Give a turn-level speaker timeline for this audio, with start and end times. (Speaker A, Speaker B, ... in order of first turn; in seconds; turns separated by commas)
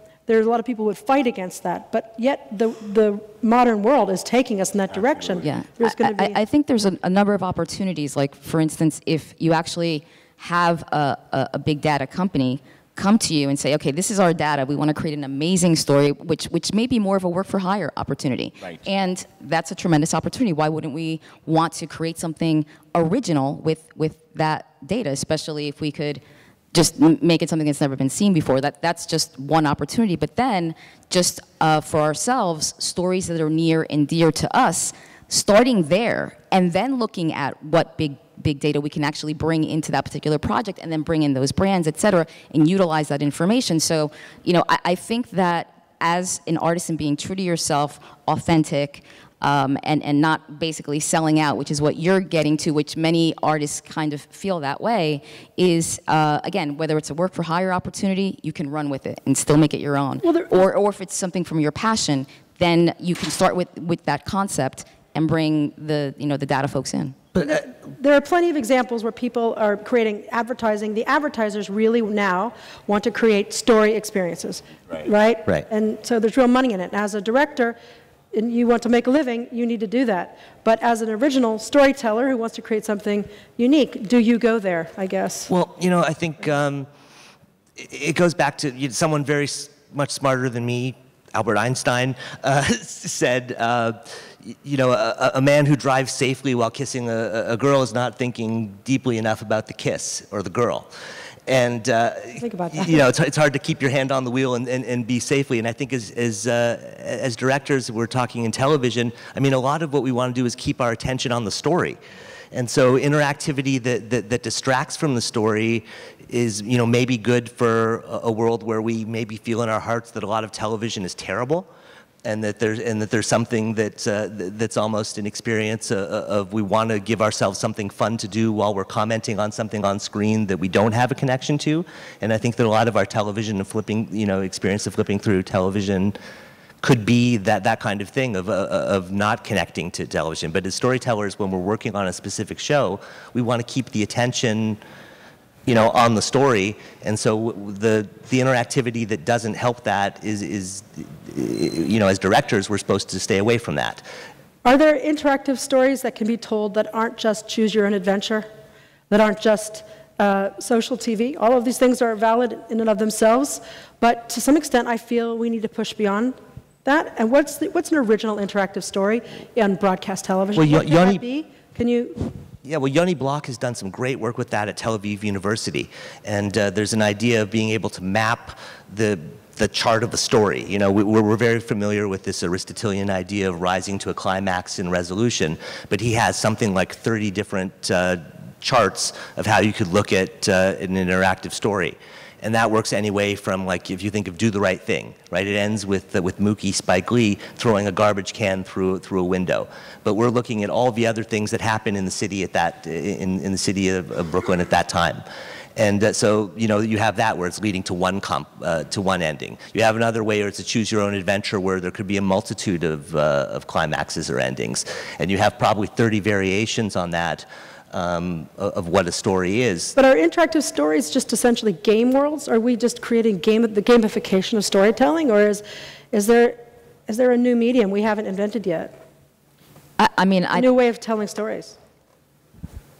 Speaker A: 0.3-6.4, Speaker B: 5.4-26.2, Speaker B: 26.7-67.2, Speaker A: 60.2-60.5, Speaker A: 67.4-77.8, Speaker A: 78.3-85.5, Speaker C: 85.5-86.9, Speaker C: 87.8-100.9, Speaker C: 101.5-112.0, Speaker A: 102.4-103.0, Speaker C: 112.5-121.7, Speaker C: 122.2-136.2, Speaker C: 136.8-144.8, Speaker C: 145.7-154.0, Speaker A: 154.6-158.5, Speaker A: 159.1-172.2, Speaker C: 170.6-171.2, Speaker C: 172.6-205.2, Speaker C: 205.8-219.9, Speaker A: 219.9-228.9, Speaker B: 230.0-230.7, Speaker A: 230.5-231.8